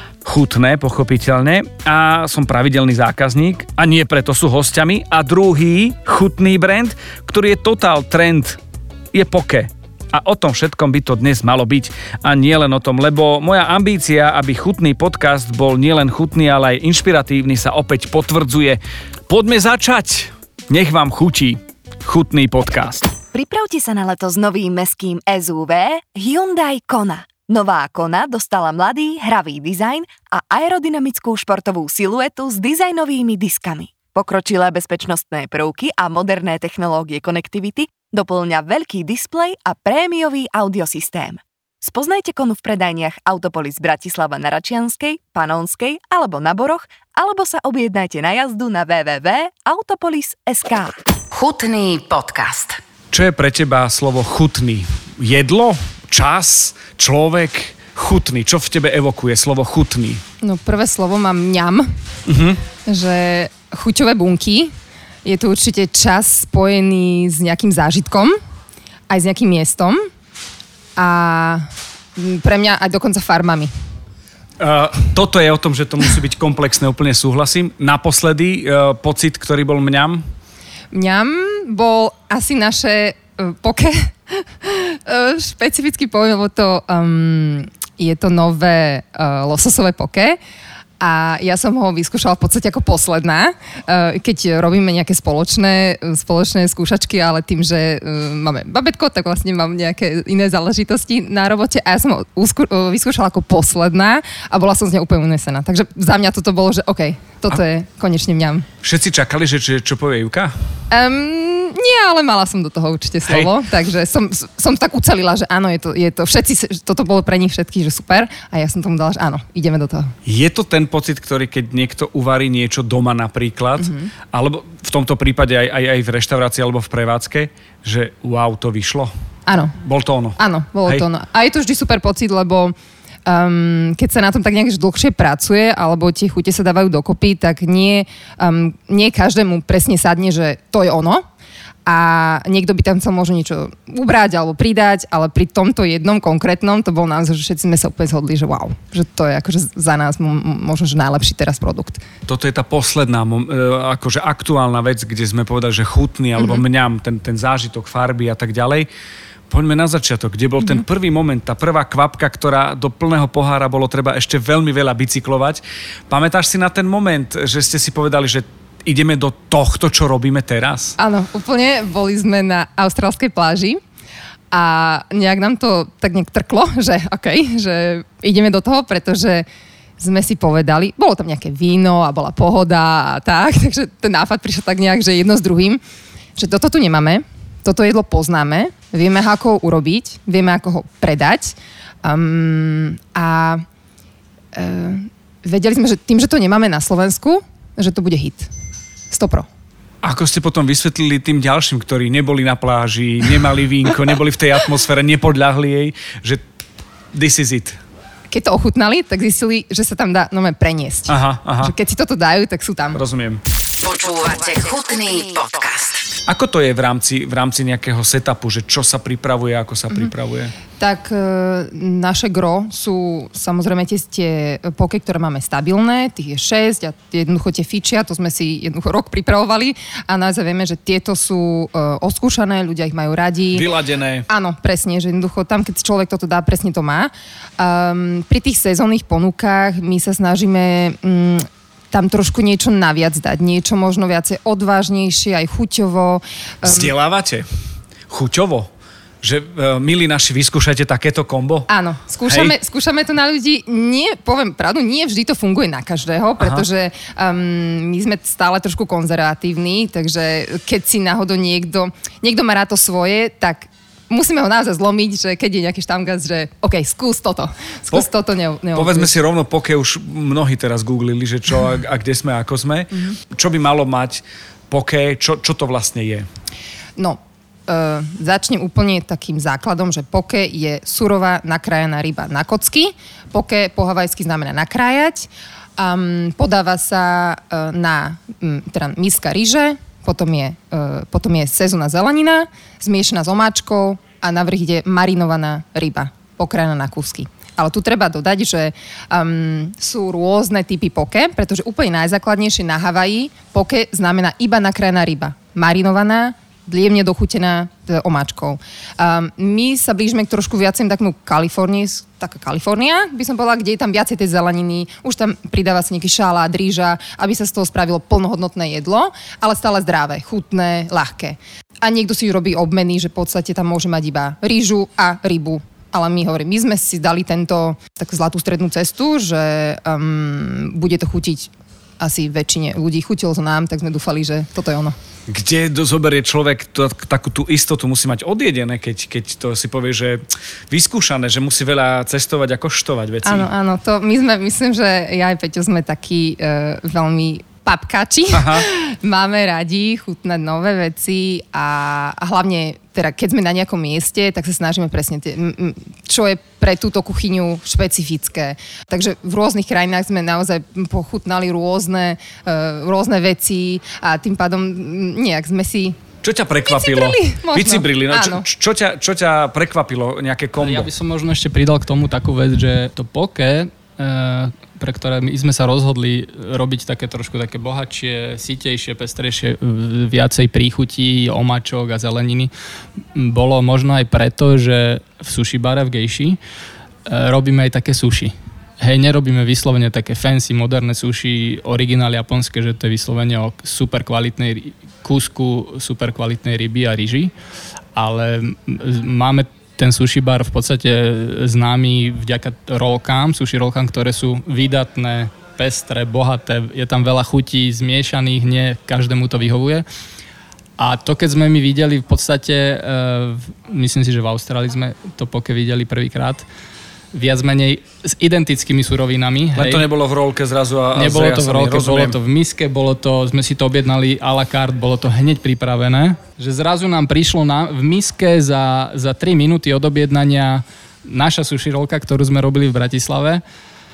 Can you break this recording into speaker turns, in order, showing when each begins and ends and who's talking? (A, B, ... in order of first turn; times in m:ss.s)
0:00.2-0:08.6 A
0:09.1-0:23.1 A
0:23.3-0:51.0 B
0:51.3-0:52.8 C
0:53.1-1:00.2 A
1:00.4-1:01.9 D
1:02.3-1:02.6 A
1:02.8-1:04.7 D
1:05.2-1:08.4 D
1:09.1-1:10.1 D
1:11.0-1:13.7 D
1:14.6-1:20.2 A
1:20.9-1:30.4 D
1:31.0-1:48.7 D
1:48.8-1:50.5 A
1:50.9-2:00.2 D
1:53.3-1:53.5 A
2:00.3-2:09.1 A
2:03.8-2:04.1 D
2:09.5-2:09.8 D
2:09.8-2:11.1 A
2:10.4-2:21.2 D
2:21.9-2:32.0 D
2:32.3-2:38.9 A
2:36.4-2:36.6 D
2:39.5-2:51.0 A
2:51.0-2:53.8 D
2:54.5-2:59.5 D
3:00.0-3:05.8 D
3:06.4-3:13.6 D
3:14.5-3:18.5 D
3:19.1-3:19.5 D
3:20.0-3:26.4 A
3:27.1-3:27.8 A
3:28.3-3:33.0 D
3:31.1-3:31.7 A
3:32.9-3:33.4 A
3:33.8-3:36.0 C
3:36.3-3:40.5 A
3:40.8-3:53.7 D
3:53.5-3:54.3 A
3:54.3-4:06.9 D
4:06.6-4:07.5 A
4:08.1-4:08.7 A
4:09.2-4:11.7 A
4:11.7-4:29.2 D
4:12.3-4:12.6 A
4:16.4-4:16.6 A
4:28.7-4:36.3 A
4:37.0-5:35.0 D
5:35.3-5:43.5 A
5:43.2-6:06.0 D
5:48.3-5:48.7 A
6:06.2-6:10.9 A
6:06.7-6:08.5 D
6:10.6-6:22.5 E
6:23.2-6:26.4 E
6:27.1-6:37.3 E
6:38.0-6:49.8 E
6:50.8-6:56.4 E
6:57.1-6:59.8 E
6:59.6-7:02.2 A
7:01.0-7:13.4 E